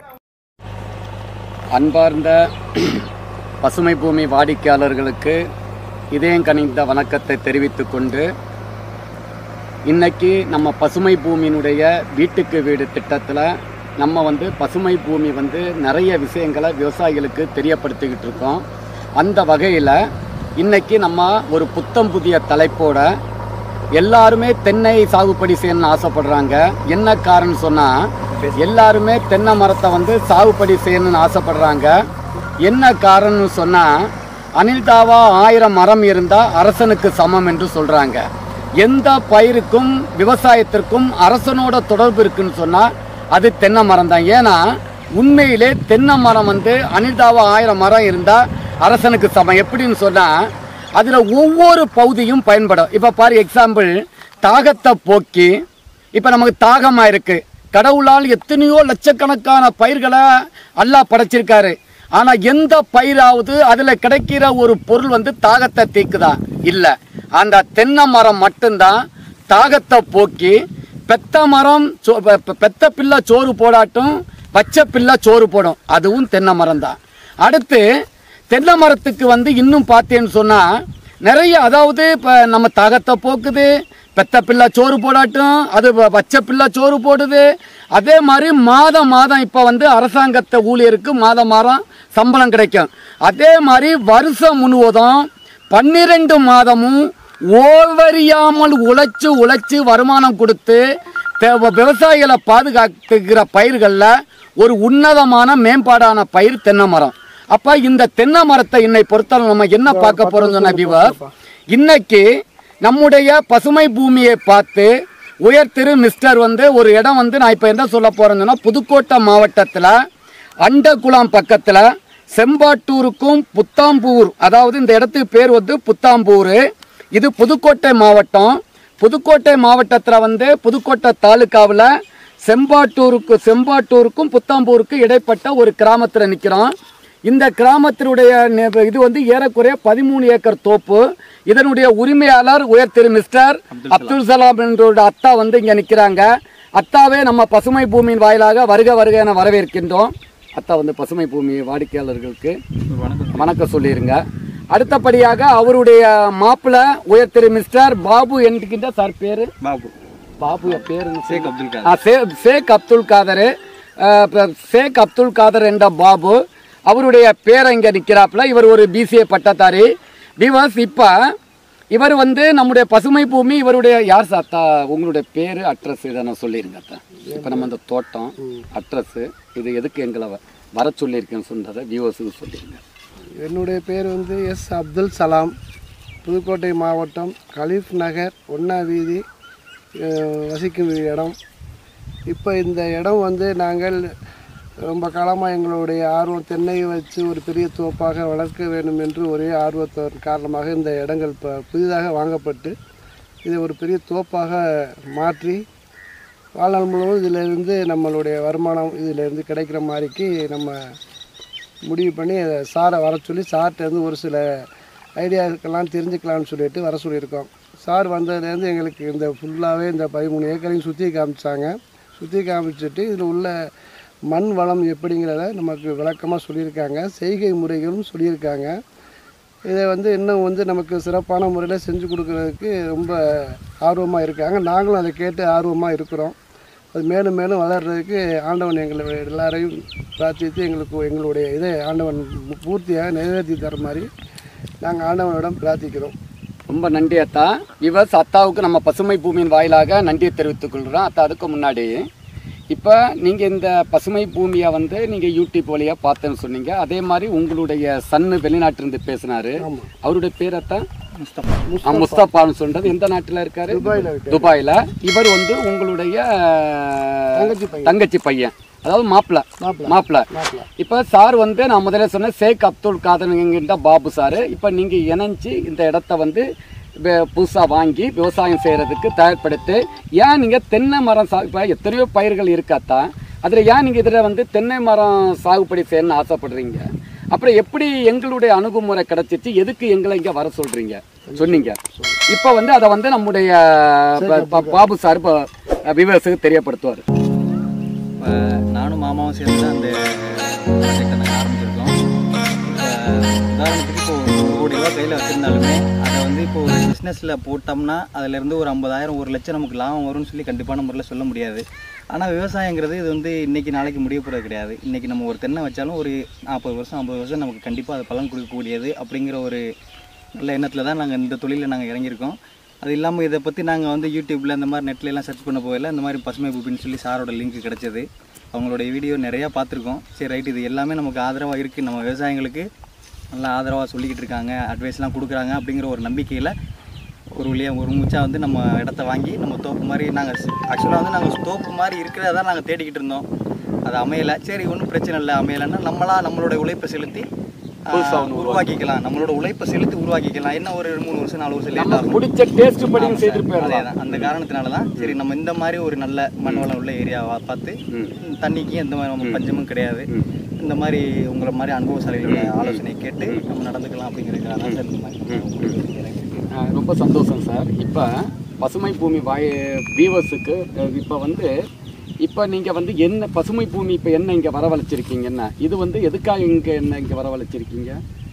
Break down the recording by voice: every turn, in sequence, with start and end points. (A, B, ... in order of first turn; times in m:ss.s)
0:01.7-0:03.0 A
0:03.6-0:05.4 A
0:06.1-0:08.3 A
0:09.9-0:18.6 A
0:19.2-0:20.0 A
0:20.6-0:23.1 A
0:24.0-0:32.0 A
0:32.6-0:34.1 A
0:34.6-0:38.3 A
0:38.8-0:44.6 A
0:45.2-0:50.3 A
0:51.0-0:55.6 A
0:56.2-1:09.0 A
1:09.5-1:10.6 A
1:11.1-1:17.8 A
1:18.5-1:20.7 A
1:21.2-1:27.4 A
1:28.0-1:40.8 A
1:41.4-1:51.1 A
1:49.9-1:51.3 B
1:51.7-1:52.3 A
1:52.8-1:54.9 A
1:55.5-1:59.9 A
2:00.6-2:01.8 A
2:02.3-2:06.6 A
2:07.2-2:11.9 A
2:12.5-2:16.7 A
2:17.3-2:32.6 A
2:23.7-2:24.2 C
2:32.9-2:33.5 C
2:33.4-2:39.5 A
2:39.6-2:39.9 C
2:40.4-2:49.9 A
2:40.7-2:42.0 C
2:50.4-2:51.2 A
2:51.9-3:02.8 A
2:57.3-2:57.7 B
3:03.4-3:05.5 B
3:06.2-3:09.2 B
3:10.0-3:11.4 B
3:12.3-3:14.0 B
3:14.8-3:22.8 B
3:23.4-3:25.6 B
3:26.6-3:30.8 B
3:31.9-3:34.7 B
3:35.2-3:43.6 B
3:44.3-3:48.8 B
3:49.7-3:56.4 B
3:56.9-4:04.1 B
4:04.8-4:06.2 B
4:06.7-4:12.1 A
4:12.7-4:20.8 A
4:19.6-4:19.9 B
4:21.2-4:21.7 C
4:21.7-4:22.3 B
4:21.9-4:30.3 A
4:23.7-4:24.5 B
4:27.4-4:28.0 B
4:29.6-4:30.7 B
4:30.8-4:36.5 A
4:37.0-4:51.8 A
4:51.3-4:52.2 B
4:52.3-4:57.0 A
4:54.2-4:54.9 B
4:58.2-5:02.0 C
5:02.6-5:19.6 C
5:20.4-5:32.7 C
5:33.3-5:36.5 C
5:37.4-5:43.3 C
5:43.9-5:47.3 C
5:47.9-5:52.2 C
5:47.9-5:48.6 A
5:51.8-5:54.3 A
5:53.0-6:00.1 C
5:57.9-5:58.2 A
6:00.6-6:06.5 C
6:02.3-6:03.4 A
6:04.6-6:05.7 A
6:06.5-6:11.5 A
6:12.2-6:18.0 A